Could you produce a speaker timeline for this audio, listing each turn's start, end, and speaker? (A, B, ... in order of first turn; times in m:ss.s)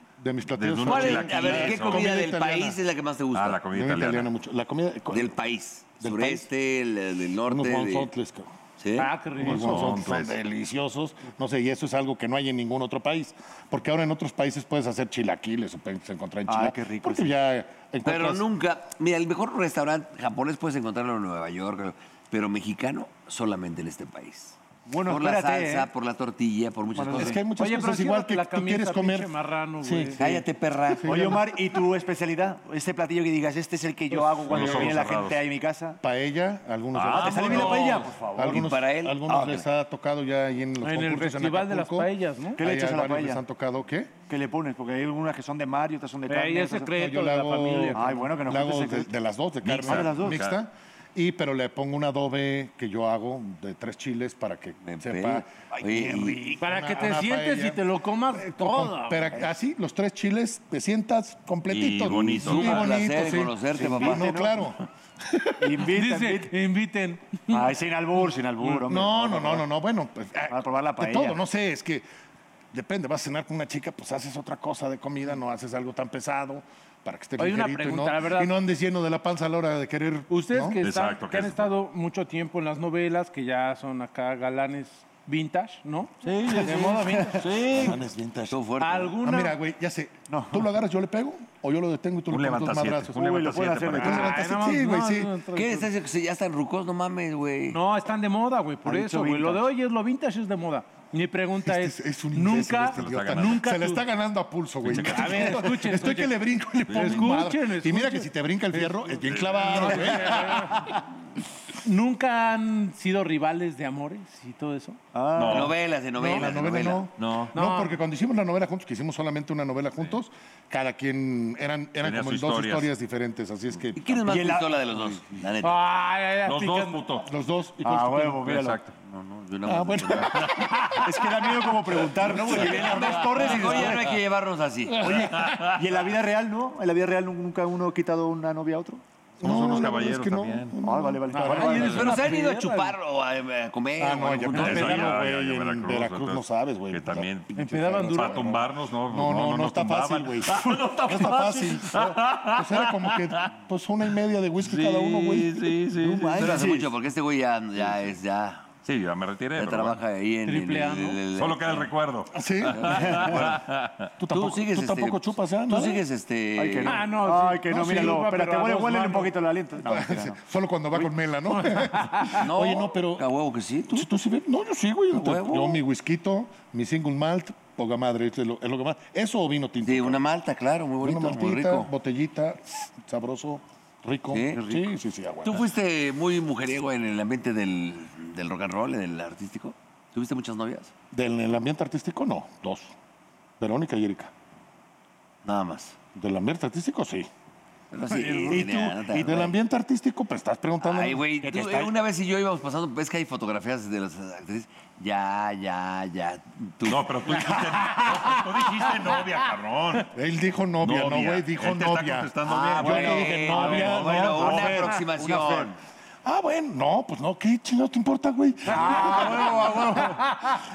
0:00.2-0:02.8 A
0:00.5-0:02.1 B
0:00.8-0:03.6 C
0:03.3-0:04.3 B
0:03.6-0:05.4 A
0:05.1-0:08.1 C
0:06.0-0:06.5 A
0:07.5-0:08.5 A
0:08.8-0:09.1 C
0:09.0-0:09.9 D
0:09.4-0:18.4 A
0:09.4-0:10.4 B
0:16.5-0:17.3 E
0:18.0-0:27.4 C
0:24.9-0:25.9 E
0:27.0-0:27.4 E
0:27.1-0:31.5 A
0:27.6-0:30.2 D
0:30.2-0:31.4 C
0:31.0-0:36.0 E
0:34.5-0:35.4 B
0:34.5-0:35.1 A
0:36.0-0:44.2 A
0:36.9-0:38.0 B
0:37.1-0:38.7 E
0:37.4-0:39.6 C
0:39.3-0:39.6 E
0:40.8-0:42.6 D
0:42.6-0:43.4 E
0:44.3-0:47.0 E
0:46.3-0:48.1 D
0:46.9-1:04.8 A
0:47.9-0:49.1 E
0:49.6-0:50.6 B
0:49.8-0:50.4 E
0:54.8-0:56.6 C
0:56.6-0:59.4 D
1:01.7-1:03.0 B
1:02.4-1:04.3 C
1:03.8-1:04.7 E
1:05.6-1:06.5 E
1:05.8-1:07.7 D
1:07.5-1:09.7 E
1:08.7-1:12.1 A
1:10.5-1:11.4 E
1:12.7-1:20.8 A
1:17.4-1:18.5 D
1:20.3-1:27.6 D
1:20.8-1:21.7 B
1:26.2-1:28.0 B
1:27.6-1:28.6 A
1:28.5-1:29.2 C
1:28.8-1:29.6 D
1:29.2-1:33.2 A
1:30.3-1:30.7 E
1:32.3-1:34.3 B
1:33.1-1:34.4 E
1:34.0-1:35.4 A
1:34.0-1:35.9 D
1:35.6-1:37.8 C
1:37.7-1:44.1 D
1:38.8-1:39.7 E
1:41.6-1:50.9 A
1:42.8-1:43.7 B
1:44.8-1:45.2 B
1:44.9-1:50.9 D
1:46.9-1:47.4 B
1:49.3-1:50.4 B
1:51.8-1:55.0 D
1:55.1-1:55.7 E
1:55.4-1:55.8 B
1:55.4-1:57.1 C
1:56.2-1:56.5 D
1:56.2-2:04.2 A
1:57.2-1:57.6 B
1:57.6-1:58.0 D
2:02.0-2:02.9 B
2:04.0-2:05.8 C
2:04.3-2:05.2 E
2:05.6-2:07.1 D
2:06.4-2:07.3 B
2:07.2-2:08.4 A
2:07.8-2:08.8 E
2:08.4-2:08.9 B
2:09.0-2:10.6 C
2:09.6-2:11.2 A
2:11.0-2:14.2 E
2:12.1-2:13.1 A
2:12.3-2:15.3 C
2:15.1-2:15.8 B
2:15.2-2:15.5 A
2:15.6-2:19.0 E
2:19.4-2:22.2 A
2:19.4-2:20.8 B
2:20.8-2:22.1 E
2:21.3-2:23.0 D
2:21.8-2:25.0 C
2:24.0-2:35.8 A
2:24.5-2:33.4 B
2:27.6-2:28.5 D
2:34.6-2:36.7 B
2:36.0-2:36.9 E
2:36.4-2:38.7 C
2:38.8-2:40.0 B
2:39.6-2:41.9 C
2:40.4-2:41.2 D
2:41.3-2:44.1 B
2:42.3-2:43.6 A
2:42.7-2:43.2 C
2:44.2-2:46.0 A
2:44.3-2:47.1 C
2:46.6-2:50.4 E
2:46.8-2:49.3 D
2:47.7-2:48.2 A
2:49.8-2:53.3 A
2:52.3-2:54.1 C
2:53.9-3:00.2 A
2:55.1-2:55.8 C
2:59.8-3:01.9 C
3:01.0-3:05.7 A
3:04.3-3:04.8 C
3:04.6-3:04.9 E
3:05.5-3:10.9 C
3:11.1-3:12.9 A
3:13.6-3:14.3 A
3:15.4-3:16.0 C
3:16.1-3:17.3 A
3:17.9-3:19.6 C
3:18.3-3:21.2 A
3:20.8-3:27.6 C
3:21.4-3:22.0 E
3:26.8-3:30.1 B
3:27.3-3:28.8 A
3:30.0-3:34.9 A
3:30.8-3:34.3 B
3:32.5-3:35.8 C
3:32.8-3:35.7 E
3:36.2-3:40.3 A
3:38.7-3:40.0 E
3:38.9-3:40.2 D